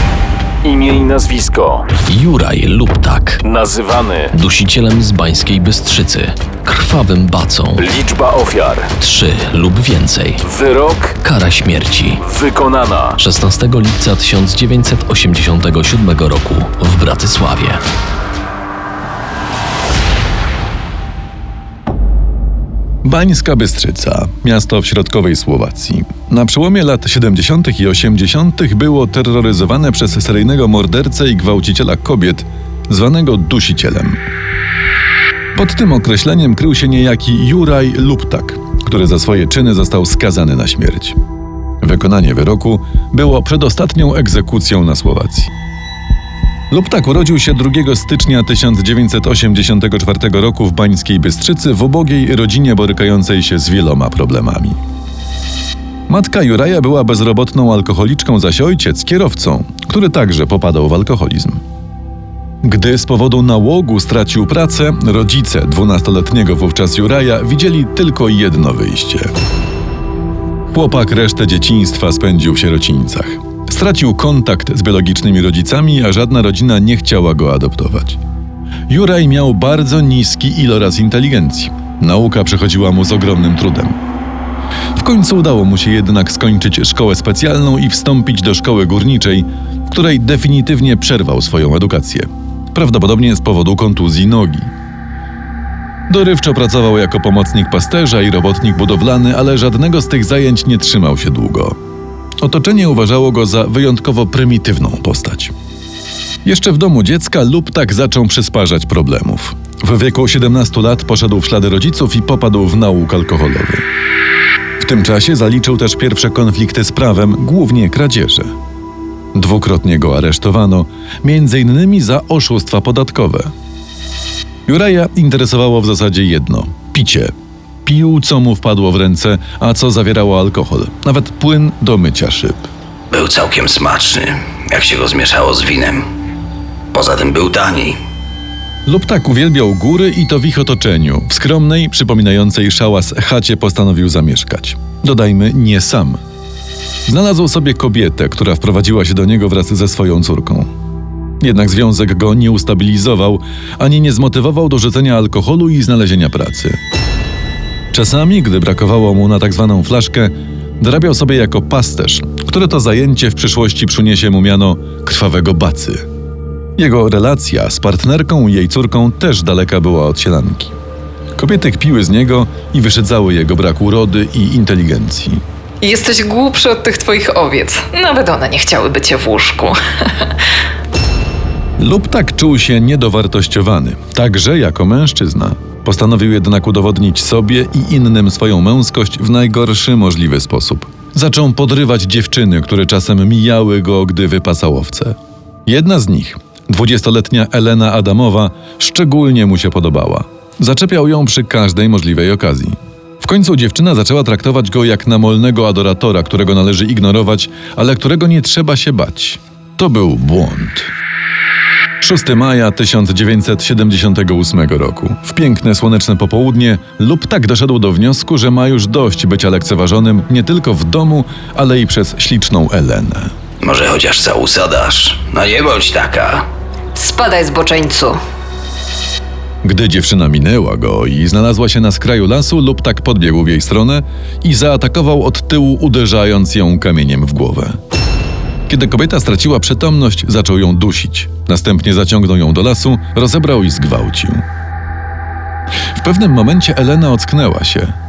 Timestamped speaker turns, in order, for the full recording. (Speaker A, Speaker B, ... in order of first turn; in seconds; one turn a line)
Speaker A: 0.6-1.9
Speaker B: 2.1-3.4
Speaker A: 3.4-4.4
Speaker B: 4.5-7.8
Speaker A: 7.7-9.1
Speaker B: 9.1-10.3
Speaker A: 10.4-11.2
Speaker B: 11.4-12.2
Speaker A: 12.1-13.2
Speaker B: 13.4-17.8
Speaker C: 23.0-34.2
Speaker C: 35.5-41.1
Speaker C: 41.8-45.5
Speaker C: 46.7-54.8
Speaker C: 56.1-61.6
Speaker C: 62.6-69.3
Speaker C: 70.7-78.2
Speaker C: 78.9-84.0
Speaker C: 84.9-94.7
Speaker C: 96.1-101.7
Speaker C: 102.4-105.5
Speaker C: 106.4-113.8
Speaker C: 114.8-118.5
Speaker C: 119.3-123.5
Speaker C: 124.7-127.3
Speaker C: 127.8-132.7
Speaker D: 133.1-136.0
Speaker D: 136.9-138.0
Speaker C: 138.8-146.2
Speaker C: 147.1-150.7
Speaker C: 151.4-156.8
Speaker C: 157.9-166.0
Speaker C: 166.8-170.7
Speaker C: 171.4-175.4
Speaker E: 175.8-180.3
Speaker C: 181.8-210.9
Speaker C: 212.0-223.3
Speaker D: 223.6-226.4
Speaker E: 226.9-228.2
Speaker C: 229.6-237.8
Speaker C: 238.7-244.4
Speaker C: 245.9-247.9